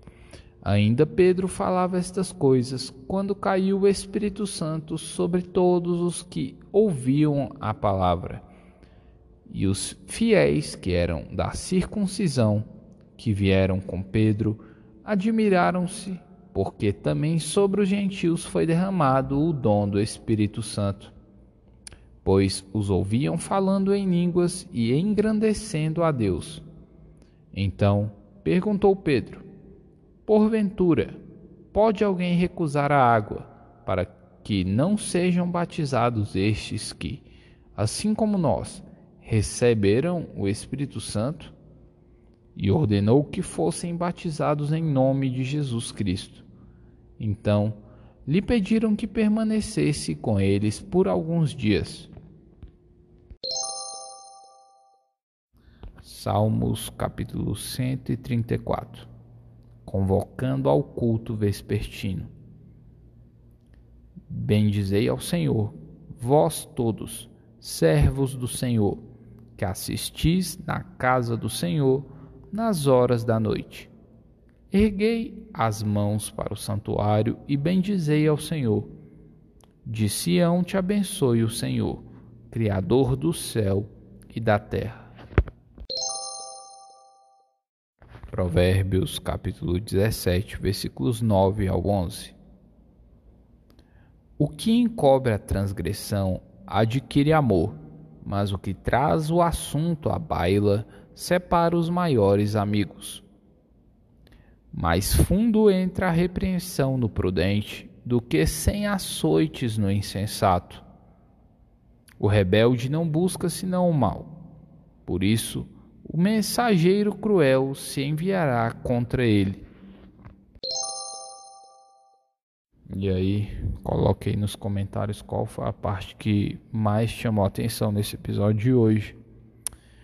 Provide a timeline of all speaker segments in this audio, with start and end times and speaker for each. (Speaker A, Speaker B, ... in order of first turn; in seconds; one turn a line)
Speaker A: 0.6-8.4
Speaker A: 9.5-12.7
Speaker A: 13.2-21.1
Speaker A: 22.2-26.6
Speaker A: 27.5-29.4
Speaker A: 30.3-31.2
Speaker A: 31.7-41.5
Speaker A: 42.5-46.5
Speaker A: 47.2-52.1
Speaker A: 56.0-59.1
Speaker A: 59.9-62.3
Speaker A: 64.3-69.0
Speaker A: 69.6-73.9
Speaker A: 74.7-78.9
Speaker A: 79.8-85.1
Speaker A: 88.3-92.4
Speaker A: 94.4-103.2
Speaker A: 104.7-110.8
Speaker A: 112.2-114.3
Speaker A: 115.1-119.6
Speaker A: 122.9-129.2